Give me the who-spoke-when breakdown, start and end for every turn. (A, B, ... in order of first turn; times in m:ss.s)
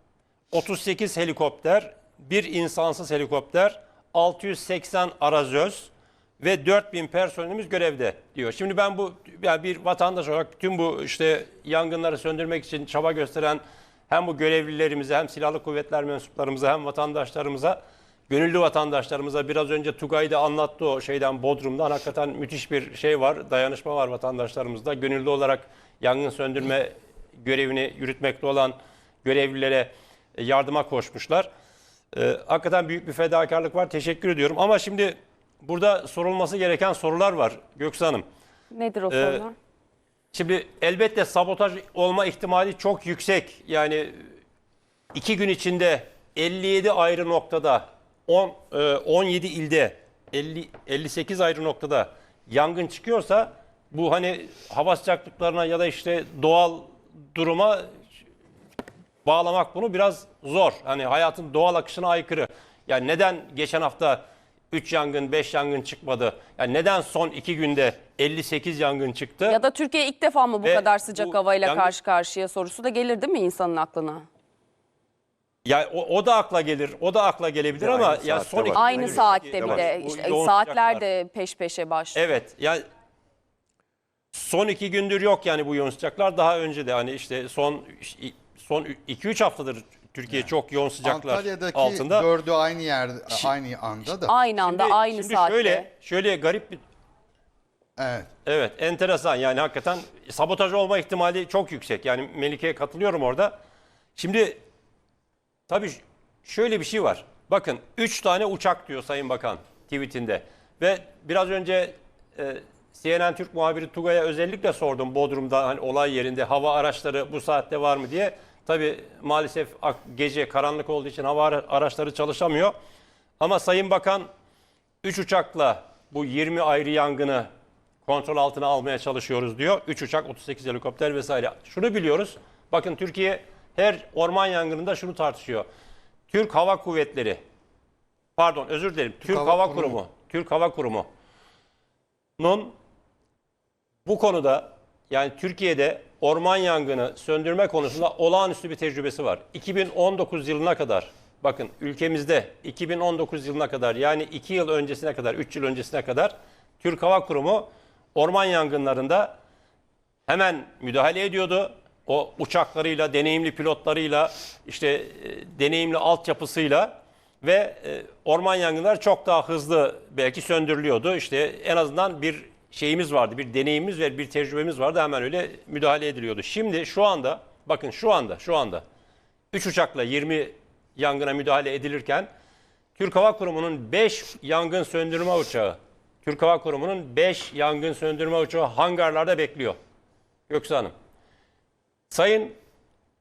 0:00.5-0:31.5 A
0:32.1-0:38.2 A
0:38.7-0:39.6 B
0:39.1-0:39.4 A
0:40.3-0:44.2 A
0:45.1-0:57.9 A
0:59.2-1:09.6 A
1:09.4-1:14.2 B
1:10.6-1:11.9 A
1:15.6-1:21.0 A
1:18.7-1:22.2 B
1:22.1-1:22.8 A
1:24.3-1:32.3 A
1:31.0-1:34.3 C
1:34.3-1:35.9 B
1:34.6-1:36.8 A
1:38.0-1:38.3 C
1:38.4-1:43.6 A
1:44.2-1:44.6 A
1:45.7-2:02.8 A
2:03.4-2:04.3 A
2:05.0-2:07.5 A
2:08.0-2:15.6 A
2:16.3-2:17.4 A
2:18.4-2:21.1 A
2:19.2-2:20.0 C
2:22.4-2:22.7 A
2:24.0-2:39.3 A
2:40.3-2:58.8 A
2:59.5-3:02.3 A
3:03.0-3:09.8 A
3:10.5-3:10.9 A
3:12.1-3:12.6 A